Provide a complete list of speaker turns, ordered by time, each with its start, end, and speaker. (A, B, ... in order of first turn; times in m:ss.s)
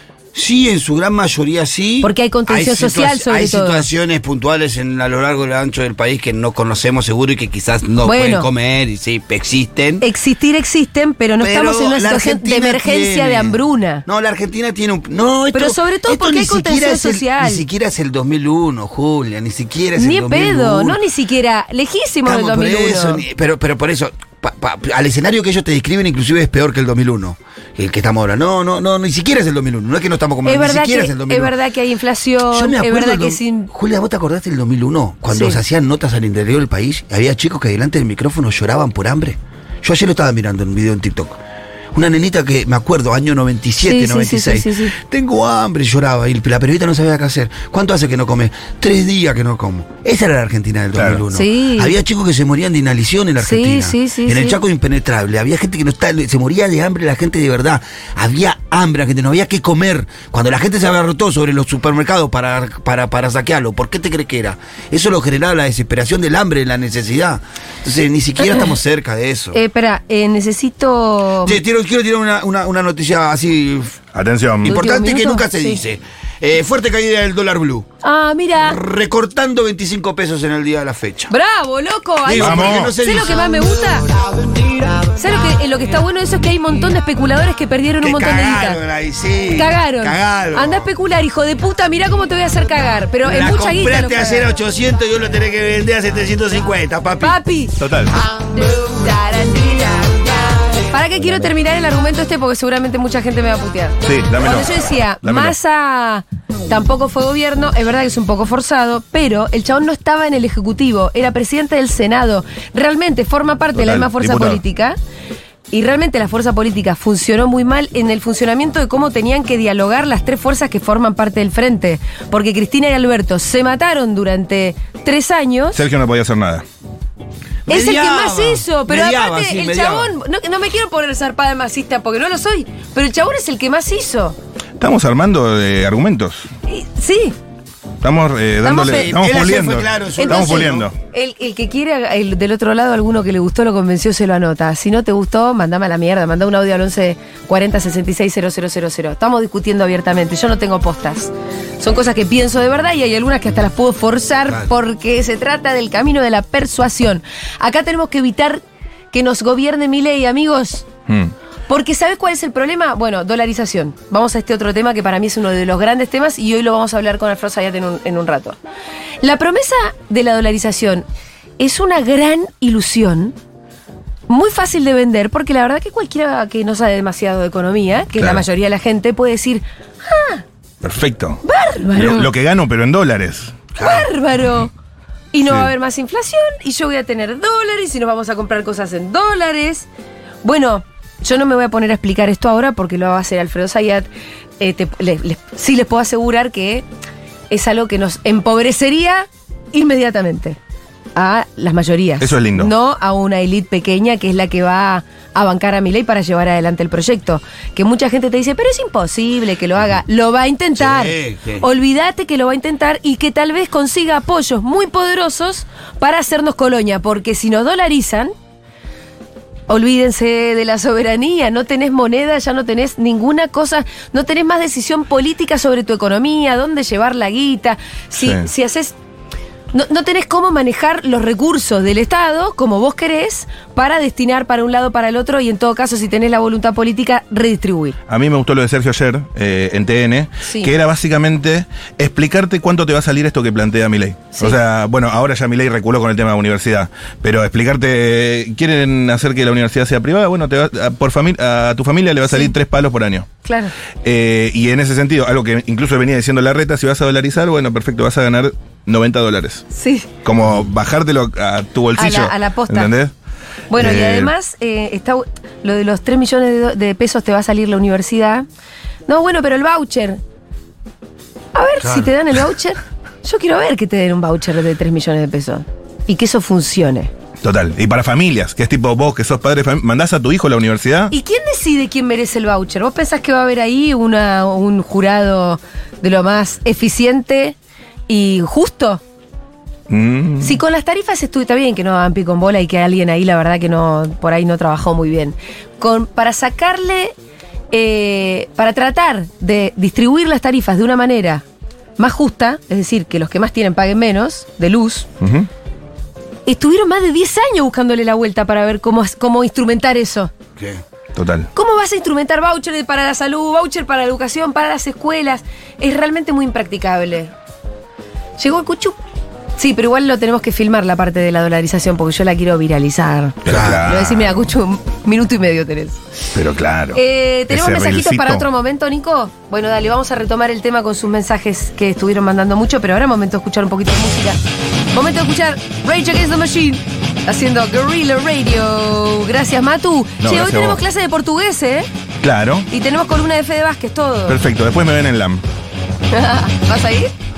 0:00.3-0:10.0 A
0:02.0-0:03.9 B
0:08.0-0:08.5 B
0:10.0-0:14.0 B
0:11.4-0:21.0 A
0:15.5-0:17.6 B
0:20.0-0:23.2 B
0:22.2-0:31.5 A
0:30.4-0:33.7 B
0:32.5-0:41.4 A
0:35.3-0:35.6 B
0:41.9-1:09.6 A
0:43.8-0:44.9 B
0:50.9-0:51.2 C
0:51.3-0:52.0 B
0:53.4-0:54.6 B
1:08.4-1:08.7 B
1:09.5-1:11.6 B
1:11.4-1:14.0 A
1:14.1-1:14.8 C
1:14.6-1:17.9 A
1:14.7-1:15.8 B
1:18.0-1:18.8 B
1:18.6-1:21.3 A
1:21.3-1:24.0 B
1:22.2-1:23.5 A
1:22.4-1:23.0 C
1:25.1-1:28.8 B
1:28.0-1:30.9 A
1:29.5-1:34.5 B
1:33.2-1:37.4 A
1:37.2-1:37.8 B
1:37.8-1:38.1 C
1:38.5-1:55.0 B
1:44.0-1:45.6 C
1:53.7-1:54.6 C
1:55.7-2:05.8 B
2:05.7-2:06.6 C
2:07.6-2:10.1 A
2:07.7-2:14.4 B
2:14.8-2:16.5 C
2:16.7-2:17.4 B
2:18.0-2:20.9 C
2:18.6-2:19.2 B
2:18.8-2:20.9 A
2:20.2-2:40.9 B
2:41.1-2:41.3 C
2:41.7-2:48.6 B
2:49.2-2:51.0 B
2:51.6-2:53.3 B
2:54.3-3:00.4 B
2:58.2-2:58.4 C
3:00.8-3:01.4 C
3:01.4-3:02.3 B
3:01.9-3:03.6 C
3:03.8-3:04.1 A
3:03.8-3:04.7 B
3:05.3-3:09.9 B
3:05.4-3:05.7 C
3:10.4-3:14.1 B
3:14.6-3:16.8 B
3:17.5-3:20.6 B
3:21.2-3:38.3 B
3:22.2-3:22.7 C
3:30.8-3:31.6 A
3:39.7-3:48.9 B
3:48.2-3:48.4 C
3:49.7-3:58.0 B
3:58.1-4:13.3 C
4:00.5-4:00.7 B
4:12.3-4:12.5 B
4:13.4-4:13.7 B
4:14.0-4:19.7 C
4:19.7-4:20.1 B
4:20.2-4:23.1 C
4:21.9-4:22.9 B
4:23.7-4:28.4 B
4:23.7-4:24.3 C
4:29.1-4:30.2 B
4:31.5-4:37.1 B
4:37.4-4:41.1 C
4:41.1-4:47.6 B
4:48.1-4:49.0 B
4:49.9-4:50.6 C
4:50.4-4:57.1 B
4:57.7-5:01.4 B
5:02.0-5:05.1 B
5:05.2-5:05.5 C
5:06.4-5:10.3 B
5:11.1-5:11.5 C
5:11.5-5:17.3 B
5:18.4-5:19.0 B
5:19.6-5:26.0 B
5:23.4-5:24.5 C
5:23.5-5:23.8 A
5:26.3-5:28.4 C
5:26.9-5:34.4 B
5:34.9-5:41.9 B
5:40.2-5:40.8 C
5:42.2-5:42.7 C
5:42.7-5:44.4 B
5:44.3-5:45.4 C
5:46.1-5:47.1 B